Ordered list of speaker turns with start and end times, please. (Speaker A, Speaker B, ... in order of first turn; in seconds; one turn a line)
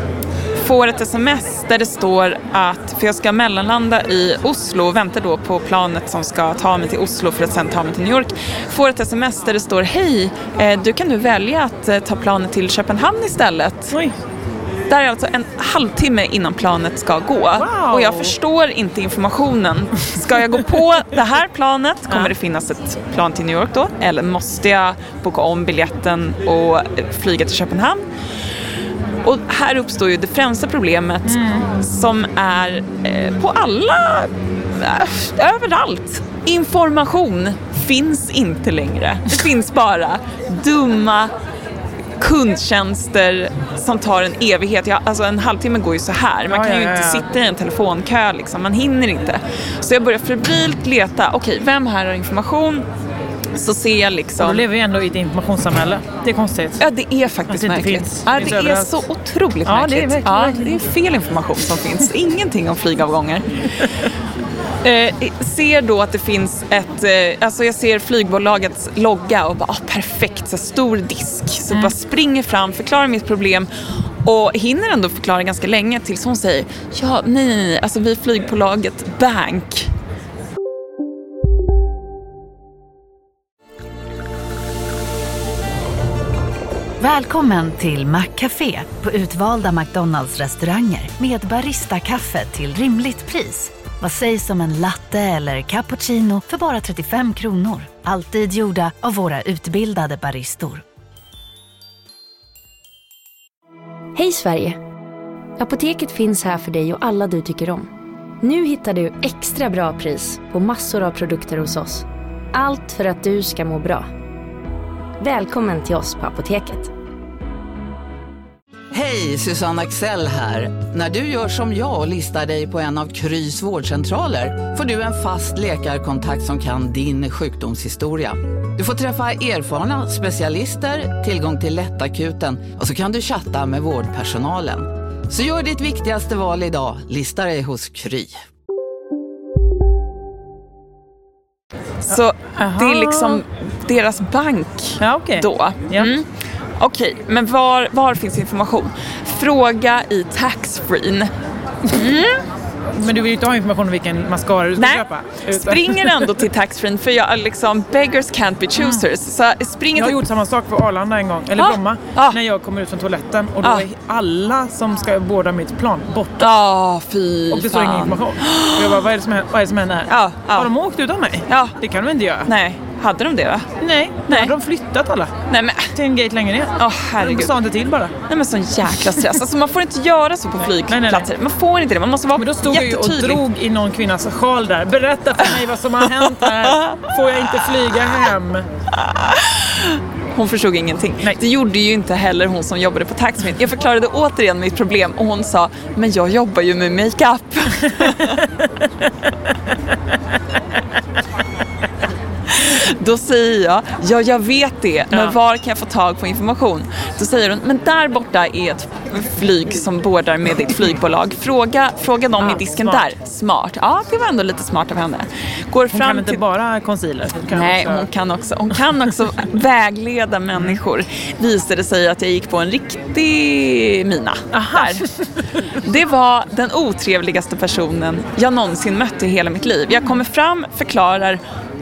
Speaker A: 0.5-14.0
Speaker A: 14.9-28.0
Speaker B: 17.5-18.3
Speaker A: 29.2-41.3
Speaker B: 31.2-31.7
Speaker A: 42.2-52.9
Speaker B: 46.5-47.3
Speaker A: 53.5-54.6
Speaker B: 54.4-56.8
Speaker A: 56.8-63.8
Speaker B: 57.5-59.0
Speaker B: 59.6-60.8
Speaker A: 64.8-73.7
Speaker A: 74.2-79.9
Speaker C: 87.0-100.8
Speaker D: 104.1-104.8
Speaker D: 105.6-107.9
Speaker D: 108.4-114.1
Speaker D: 115.2-116.9
Speaker E: 118.9-138.4
Speaker A: 142.0-146.2
Speaker B: 142.1-143.4
Speaker B: 145.0-146.1
Speaker A: 146.8-151.3
Speaker A: 151.9-152.4
Speaker B: 152.9-156.3
Speaker A: 154.8-160.2
Speaker B: 158.8-159.0
Speaker B: 159.9-166.6
Speaker A: 161.6-162.4
Speaker A: 166.4-169.0
Speaker B: 167.5-172.5
Speaker A: 170.1-170.7
Speaker A: 171.5-171.7
Speaker A: 172.4-173.7
Speaker B: 173.8-175.3
Speaker A: 174.3-174.5
Speaker A: 175.5-175.9
Speaker B: 175.9-178.1
Speaker A: 176.8-177.5
Speaker A: 178.3-183.4
Speaker B: 180.8-181.3
Speaker B: 182.4-188.7
Speaker A: 186.5-187.1
Speaker A: 189.0-198.4
Speaker A: 202.5-216.4
Speaker B: 212.4-213.1
Speaker B: 215.9-218.1
Speaker A: 217.5-225.1
Speaker B: 224.5-225.1
Speaker A: 225.8-231.4